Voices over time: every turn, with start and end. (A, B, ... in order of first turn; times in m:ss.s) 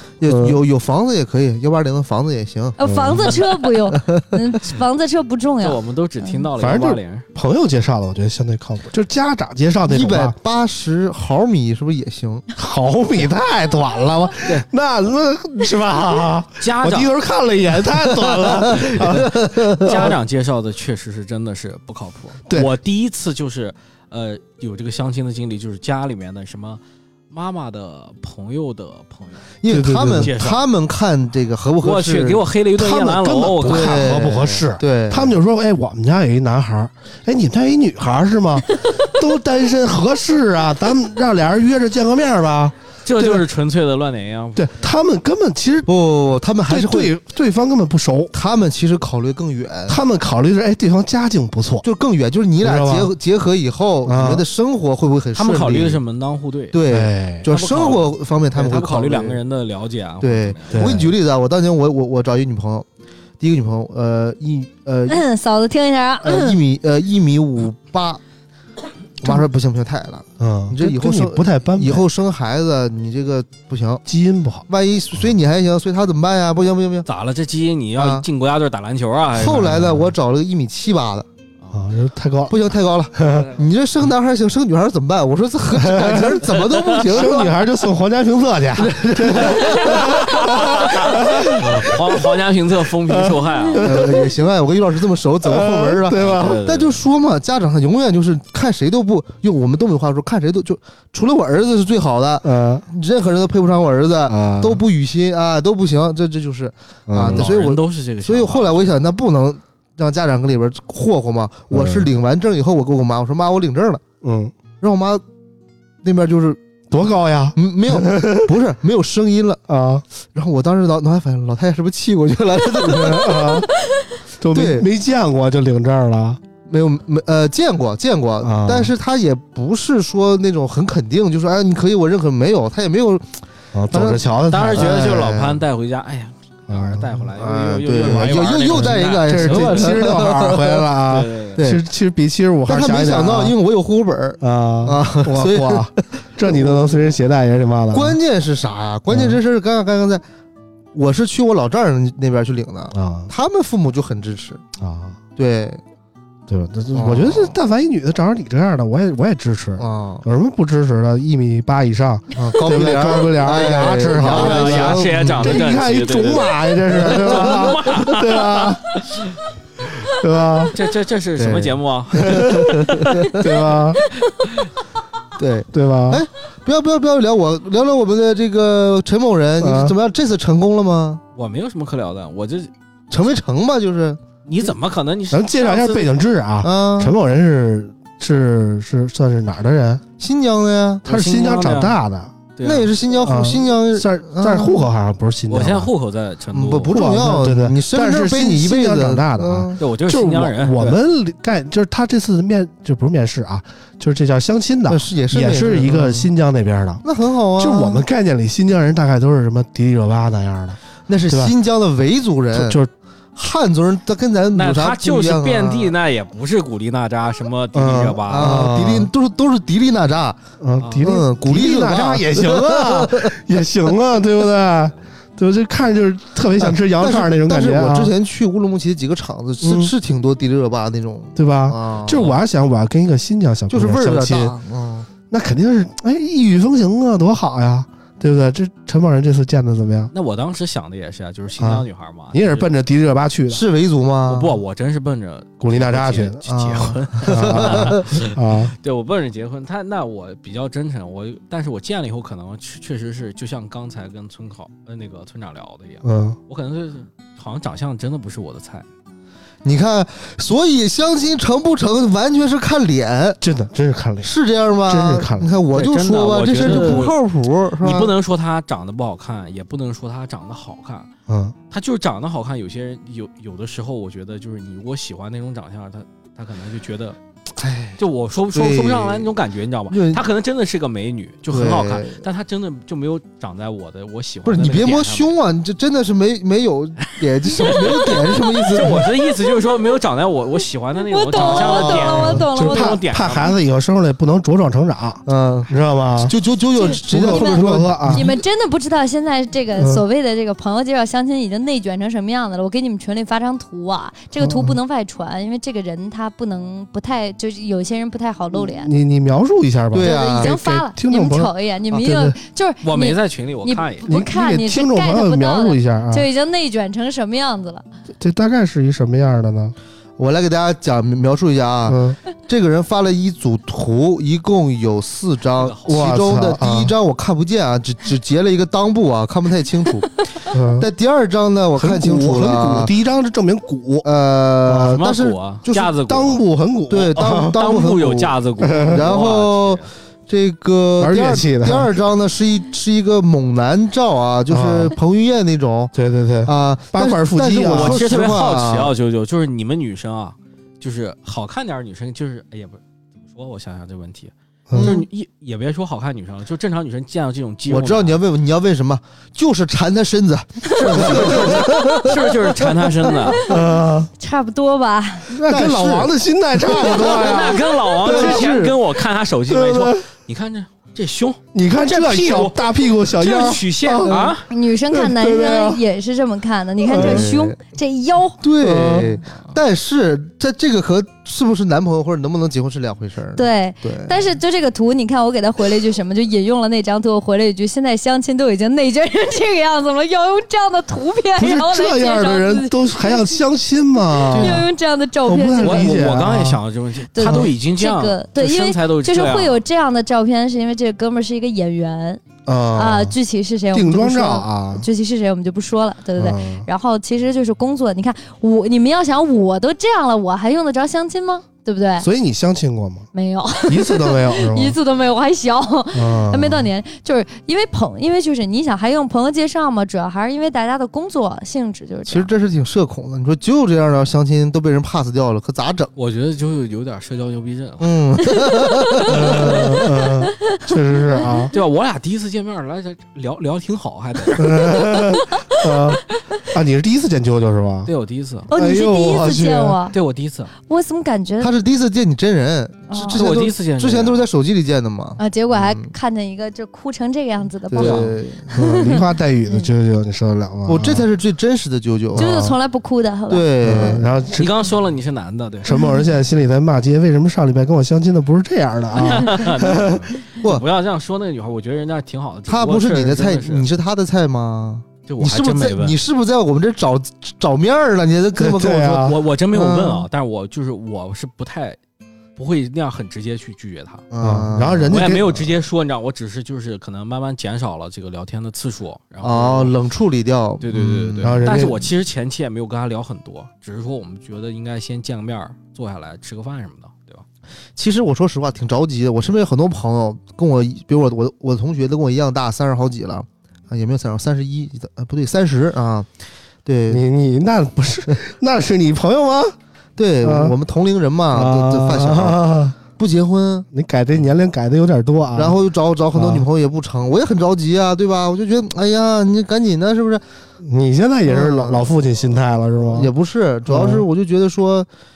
0:00.2-0:02.8 A
0:00.2-0:00.6 B
0:02.8-0:06.4 C
0:02.8-0:03.4 B
0:03.9-0:04.2 A
0:05.6-0:07.2 D
0:06.6-0:10.4 B
0:09.9-0:12.4 A
0:12.6-0:20.1 B
0:16.6-0:17.1 D
0:18.2-0:20.1 A
0:18.7-0:19.3 D
0:19.8-0:29.4 D
0:29.6-0:32.4 A
0:29.7-0:30.3 B
0:30.2-0:30.6 D
0:31.8-0:34.2 D
0:32.7-0:43.4 B
0:33.6-0:35.4 A
0:43.0-0:44.7 D
0:44.6-0:45.9 B
0:45.9-0:47.1 A
0:46.6-0:48.3 B
0:48.3-0:50.0 A
0:49.9-0:51.8 B
0:51.8-0:56.0 A
0:52.6-0:53.1 B
0:54.0-0:54.4 B
0:55.3-0:56.8 D
0:56.7-0:59.4 A
0:56.9-0:57.5 B
0:57.4-1:01.0 D
1:00.2-1:02.8 A
1:00.7-1:01.1 B
1:03.4-1:05.2 A
1:05.1-1:06.6 C
1:06.2-1:08.2 A
1:09.2-1:14.0 A
1:10.4-1:12.1 B
1:14.0-1:14.6 B
1:14.7-1:17.1 A
1:17.0-1:20.0 D
1:18.0-1:18.2 A
1:19.3-1:21.3 A
1:19.5-1:20.1 B
1:21.7-1:22.6 B
1:22.5-1:27.5 A
1:23.1-1:23.5 B
1:23.3-1:23.6 D
1:25.7-1:32.1 B
1:26.6-1:27.5 D
1:28.8-1:30.2 A
1:29.4-1:34.1 D
1:31.2-1:31.8 A
1:33.1-1:34.1 B
1:33.8-1:54.0 A
1:35.4-1:36.6 B
1:36.1-1:37.0 D
1:42.4-1:42.8 B
1:44.3-1:44.8 B
1:47.1-1:47.5 B
1:47.2-1:49.0 D
1:51.7-1:52.1 B
1:54.2-1:54.5 B
1:54.8-1:55.2 A
1:56.0-1:56.6 A
1:56.9-1:58.5 B
1:57.6-1:59.6 A
1:59.7-2:00.0 B
2:00.3-2:03.6 A
2:02.8-2:03.7 B
2:04.4-2:06.4 B
2:04.5-2:04.9 A
2:06.6-2:13.4 A
2:08.4-2:08.9 B
2:13.7-2:15.2 B
2:13.9-2:15.6 A
2:14.5-2:20.3 D
2:16.7-2:17.2 B
2:17.4-2:20.8 A
2:18.0-2:23.6 B
2:21.0-2:21.6 D
2:21.6-2:21.8 A
2:22.7-2:25.9 A
2:24.4-2:28.2 B
2:26.4-2:27.0 A
2:27.9-2:30.2 A
2:29.1-2:29.4 B
2:30.9-2:34.6 A
2:32.9-2:33.3 B
2:34.8-2:35.2 B
2:35.4-2:35.8 A
2:36.5-2:48.8 B
2:36.9-2:37.5 A
2:39.8-2:40.2 A
2:42.3-2:45.7 A
2:44.2-2:49.4 D
2:47.0-2:48.0 A
2:49.9-2:50.7 B
2:50.7-2:53.3 D
2:51.4-2:53.4 A
2:52.3-2:52.8 B
2:53.3-2:54.0 B
2:54.4-2:54.7 D
2:55.4-3:01.2 A
2:55.7-2:56.2 B
2:59.6-2:59.9 B
3:01.3-3:02.7 D
3:03.1-3:04.2 A
3:04.4-3:06.1 D
3:05.3-3:10.0 B
3:06.6-3:07.1 A
3:10.2-3:11.0 A
3:11.0-3:12.0 D
3:11.0-3:12.3 B
3:12.6-3:12.9 D
3:12.6-3:14.8 A
3:13.2-3:15.9 B
3:15.5-3:17.0 D
3:16.5-3:19.8 A
3:16.9-3:27.0 B
3:19.8-3:21.0 D
3:24.9-3:26.3 A
3:27.0-3:28.0 A
3:27.6-3:31.5 B
3:31.1-3:32.8 A
3:32.5-3:32.9 B
3:33.4-3:35.9 A
3:34.5-3:38.7 D
3:37.7-3:39.1 B
3:38.3-3:40.4 A
3:40.6-3:48.1 B
3:40.8-3:41.2 D
3:41.0-3:43.3 A
3:46.6-3:52.3 A
3:49.6-3:49.9 B
3:51.4-3:54.6 B
3:52.1-3:52.4 D
3:53.7-3:55.1 A
3:55.3-4:00.1 B
4:00.1-4:02.7 D
4:01.6-4:03.6 B
4:03.5-4:04.6 A
4:04.3-4:18.8 D
4:05.6-4:06.4 B
4:06.5-4:08.0 A
4:07.2-4:08.7 B
4:16.0-4:16.4 B
4:19.6-4:23.4 A
4:23.4-4:24.3 B
4:24.2-4:28.1 A
4:24.8-4:25.5 B
4:25.7-4:27.2 D
4:26.6-4:27.1 B
4:27.8-4:31.1 D
4:31.3-4:31.5 B
4:31.7-4:37.2 D
4:37.6-4:38.0 A
4:38.0-4:45.3 D
4:38.5-4:39.3 A
4:39.9-4:40.2 A
4:41.5-4:42.2 A
4:44.4-4:49.1 A
4:47.4-4:53.6 D
4:51.1-4:52.9 C
4:51.4-4:52.4 A
4:52.1-4:56.3 B
4:55.2-4:58.3 A
4:56.8-4:57.6 C
4:56.9-4:58.3 B
4:58.1-5:08.9 C
4:59.7-5:00.0 B
5:04.4-5:04.8 B
5:08.5-5:12.4 B
5:09.9-5:10.5 A
5:10.0-5:17.8 C
5:12.8-5:14.1 D
5:14.1-5:16.3 B
5:18.2-5:19.7 B
5:20.2-5:30.2 A
5:21.8-5:22.2 B
5:25.6-5:26.1 D
5:25.9-5:26.9 B
5:30.5-5:30.9 B
5:30.8-5:32.9 A
5:31.8-5:34.1 B
5:34.0-5:35.9 A
5:34.6-5:35.0 B
5:34.8-5:36.4 D
5:36.1-5:37.6 B
5:36.9-5:45.9 A
5:37.6-5:39.9 D
5:38.6-5:39.0 B
5:41.0-5:41.9 B
5:44.5-5:45.0 B
5:45.9-5:48.0 B
5:46.4-5:48.9 A
5:47.7-5:58.2 D
5:54.7-5:55.0 B
5:54.8-5:55.0 A
5:57.7-6:03.1 A
6:00.8-6:03.4 D
6:00.9-6:01.6 B
6:03.3-6:03.6 C
6:03.5-6:04.1 B
6:04.2-6:05.3 C
6:05.3-6:08.5 B
6:05.4-6:08.7 A
6:07.0-6:14.4 D
6:09.5-6:10.0 B
6:11.5-6:14.1 B
6:14.5-6:18.4 C
6:14.9-6:15.8 B
6:16.9-6:17.3 B
6:16.9-6:17.6 A
6:18.4-6:24.2 A
6:18.6-6:19.2 B
6:23.4-6:33.4 C
6:31.4-6:34.7 B
6:34.1-6:36.0 C
6:34.3-6:34.6 A
6:35.2-6:36.6 B
6:35.6-6:39.6 D
6:37.1-6:42.2 C
6:42.4-6:43.1 B
6:42.7-6:52.1 C
6:43.7-6:44.9 B
6:46.2-6:46.7 B
6:52.0-6:53.1 B
6:53.1-7:02.3 C
6:53.7-6:54.8 B
6:55.9-6:56.7 B
7:02.1-7:05.9 A
7:06.0-7:08.2 D
7:07.8-7:09.6 A
7:09.1-7:11.5 B
7:11.1-7:11.5 C
7:11.5-7:14.6 D
7:14.4-7:17.9 B
7:17.8-7:18.5 D
7:18.5-7:19.8 B
7:18.5-7:20.0 C
7:19.9-7:20.5 D
7:20.7-7:21.5 C
7:21.4-7:25.9 A
7:22.9-7:23.2 C
7:23.1-7:24.3 D
7:25.2-7:29.7 C
7:27.7-7:28.5 A
7:27.7-7:28.2 D
7:28.5-7:31.1 B
7:30.6-7:32.3 A
7:32.2-7:32.6 B
7:32.2-7:33.5 C
7:33.3-7:34.0 A
7:33.6-7:34.6 B
7:34.3-7:35.7 D
7:35.6-7:40.1 B
7:39.0-7:43.7 D
7:42.5-7:50.1 A
7:45.1-7:46.0 D
7:48.3-7:49.2 B
7:49.0-7:51.8 D
7:52.4-7:54.0 D
7:54.1-7:55.2 A
7:54.2-7:55.4 B
7:54.9-7:59.7 D
7:59.2-8:01.8 A
8:00.6-8:07.2 D
8:01.2-8:01.8 B
8:07.8-8:16.1 A
8:16.6-8:17.0 A
8:16.9-8:19.5 B
8:20.0-8:23.7 A
8:20.2-8:20.5 B
8:21.3-8:22.8 B
8:23.7-8:25.6 B
8:25.4-8:30.2 A
8:26.1-8:26.5 B
8:30.6-8:33.1 B
8:31.2-8:31.9 A
8:32.9-8:34.9 A
8:33.7-8:34.0 B